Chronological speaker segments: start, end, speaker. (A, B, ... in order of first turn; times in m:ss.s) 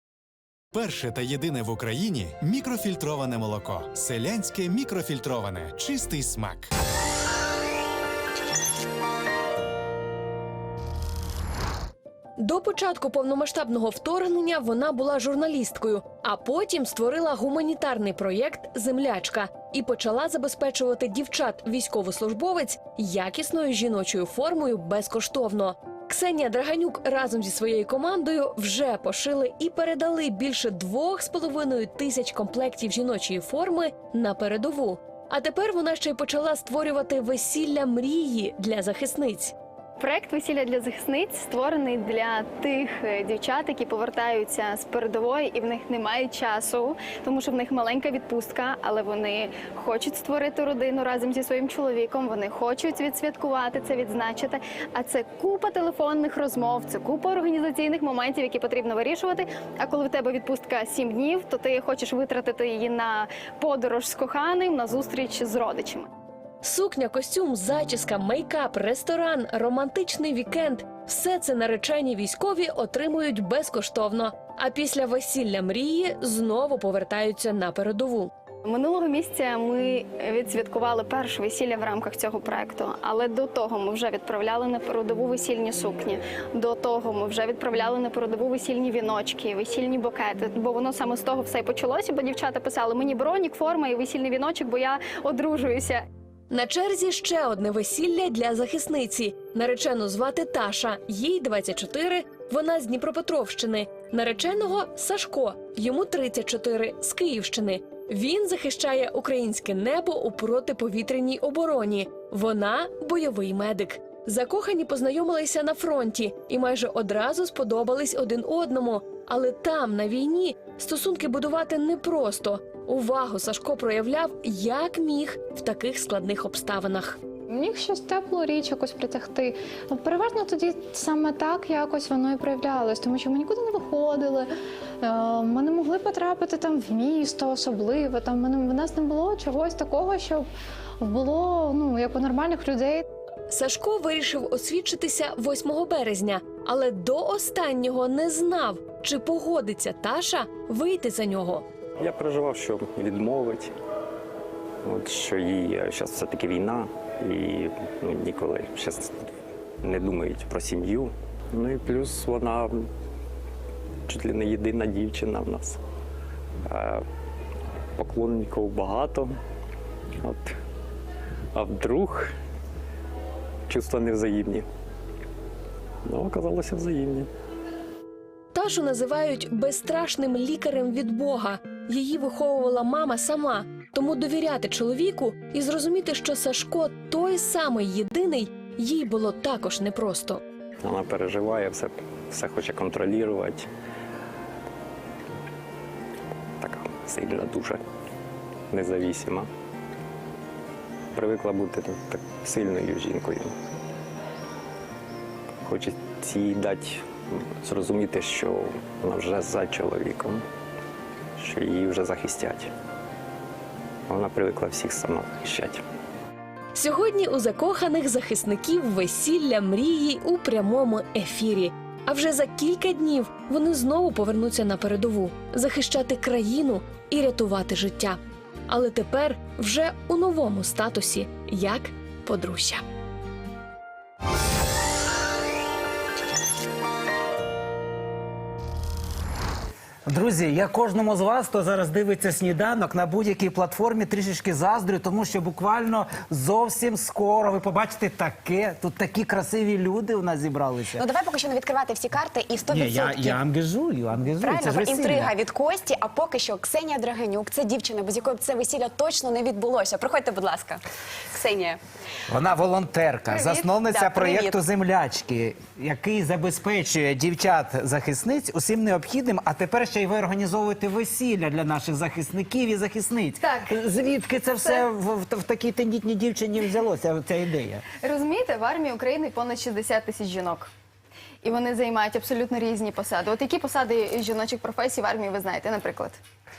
0:00.7-0:06.7 A
0:12.4-0:39.5 B
0:40.0-1:06.1 C
1:06.6-1:18.3 B
1:18.6-1:36.0 C
1:36.5-2:07.2 B
2:07.5-2:14.5 D
2:15.0-2:20.5 D
2:21.0-2:23.0 D
2:23.5-2:31.6 B
2:32.0-2:33.7 E
2:34.8-2:39.3 E
2:39.8-2:42.9 E
2:44.1-2:45.8 E
2:46.7-2:47.0 E
2:48.0-2:49.4 E
2:50.2-2:50.5 E
2:51.5-2:52.3 E
2:53.7-2:54.7 E
2:56.1-2:57.3 E
2:58.5-3:10.4 B
3:10.8-3:13.7 E
3:16.6-3:17.8 E
3:18.7-3:19.5 E
3:21.2-3:23.5 E
3:25.7-3:30.4 E
3:31.4-3:32.7 E
3:34.1-3:35.8 E
3:36.7-3:52.8 B
4:00.1-4:11.1 F
4:11.1-4:13.4 G
4:12.7-4:15.3 F
4:14.4-4:20.8 G
4:21.3-4:21.8 G
4:22.3-4:37.8 F
4:23.8-4:24.5 G
4:38.0-4:40.7 C
4:41.4-4:46.2 C